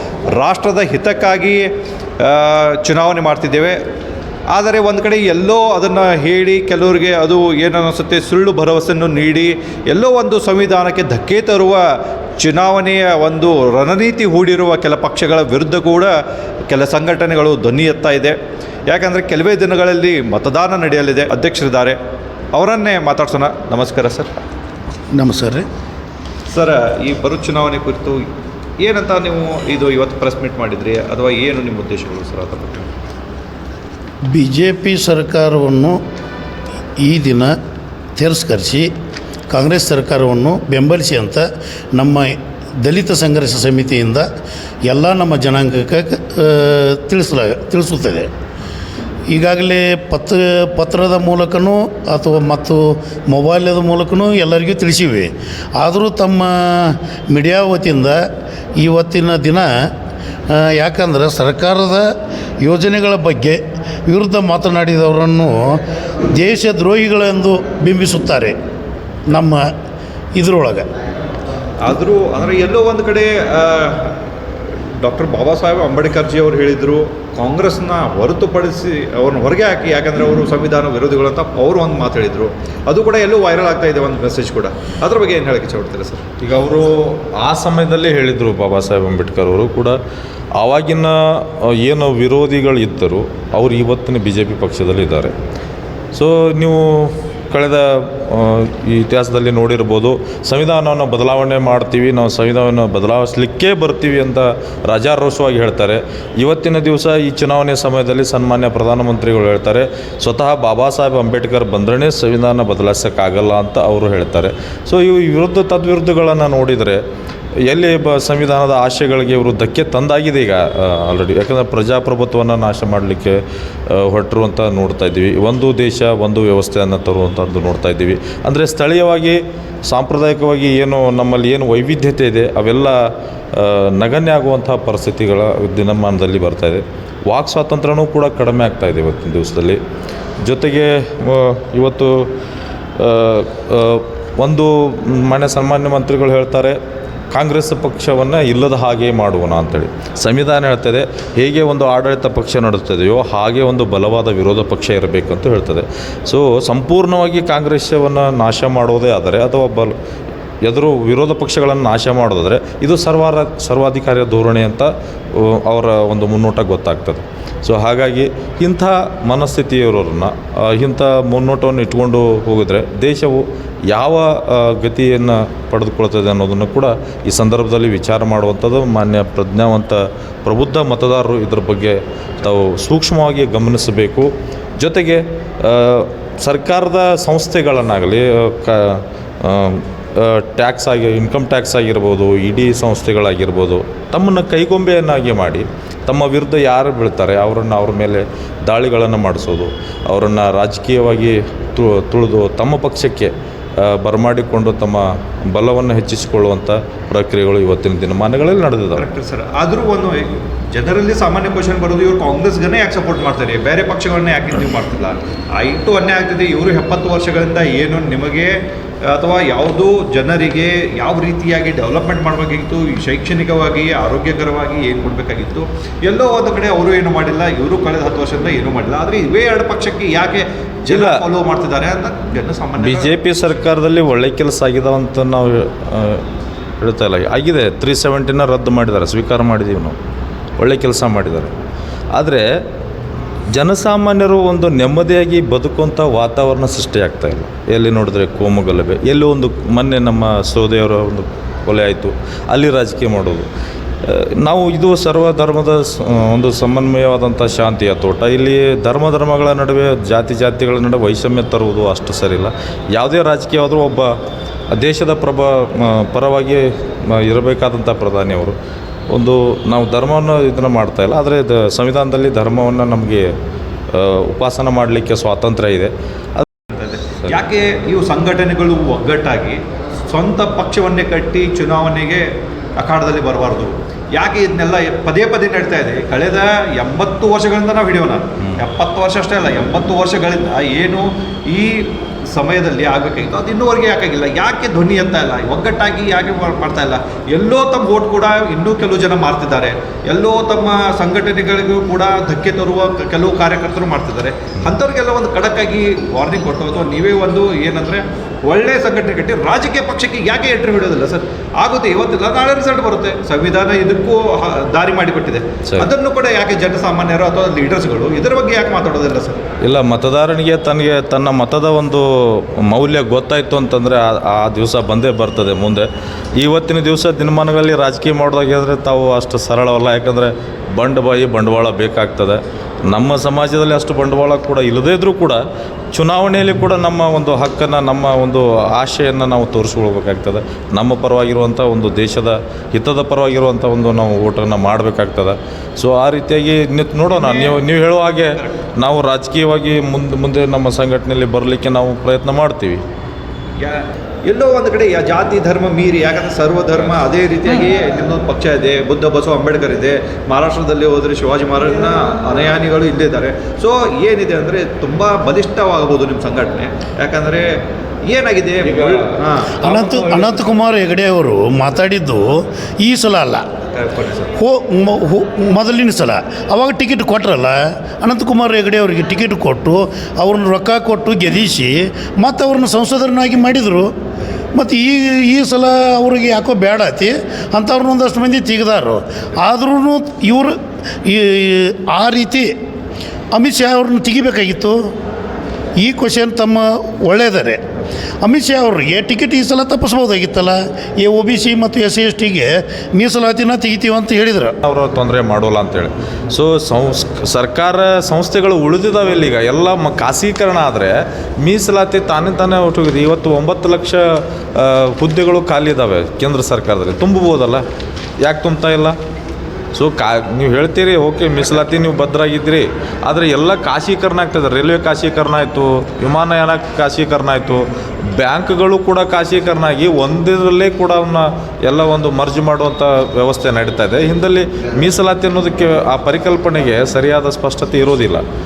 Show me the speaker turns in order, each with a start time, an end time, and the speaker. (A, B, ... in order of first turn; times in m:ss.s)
0:00.3-0:01.7 A
0:02.2-0:03.8 A
0:04.5-0:11.8 A
0:12.4-0:16.2 A
0:16.7-0:18.4 A
0:18.9-0:22.0 A
0:22.5-0:24.3 A
0:25.1-0:25.6 B
0:26.5-0:28.2 A
0:28.8-0:32.9 A
0:34.3-0:36.0 B
0:37.0-0:37.5 B
0:38.2-0:38.9 B
0:39.5-0:44.2 B
0:44.8-0:48.3 B
0:49.3-0:58.2 B
0:58.8-0:59.7 B
1:00.5-1:02.1 B
1:02.6-1:05.8 B
1:06.3-1:08.5 B
1:09.3-1:09.6 B
1:10.4-1:10.9 B
1:11.8-1:14.2 A
1:15.0-1:26.3 A
1:26.4-1:30.0 C
1:30.6-1:35.3 C
1:36.1-1:57.0 C
1:57.6-2:03.4 C
2:03.9-2:13.0 C
2:13.5-2:19.8 C
2:20.4-2:22.3 C
2:23.0-2:26.8 C
2:27.3-2:39.9 C
2:40.6-3:29.0 C
3:29.0-3:53.1 A
3:50.9-3:51.2 C
3:52.8-3:56.2 C
3:56.8-4:00.0 C
4:00.6-4:01.5 C
4:02.1-4:02.4 C
4:03.5-4:13.5 C
4:14.0-4:24.1 C
4:24.7-4:28.6 C
4:29.1-4:33.3 C
4:33.9-4:36.4 C
4:36.7-5:19.4 A
5:19.6-5:35.4 C
5:35.9-5:52.8 C
5:47.1-5:47.6 A
5:53.6-6:07.5 A
6:08.0-6:10.5 A
6:08.6-6:09.1 C
6:09.6-6:13.4 B
6:13.7-6:14.3 A
6:14.4-6:23.9 B
6:24.5-6:32.5 B
6:33.3-6:34.8 B
6:35.8-6:37.6 B
6:38.2-6:44.5 B
6:44.6-6:57.6 C
6:58.2-6:59.0 C
6:59.7-7:18.2 C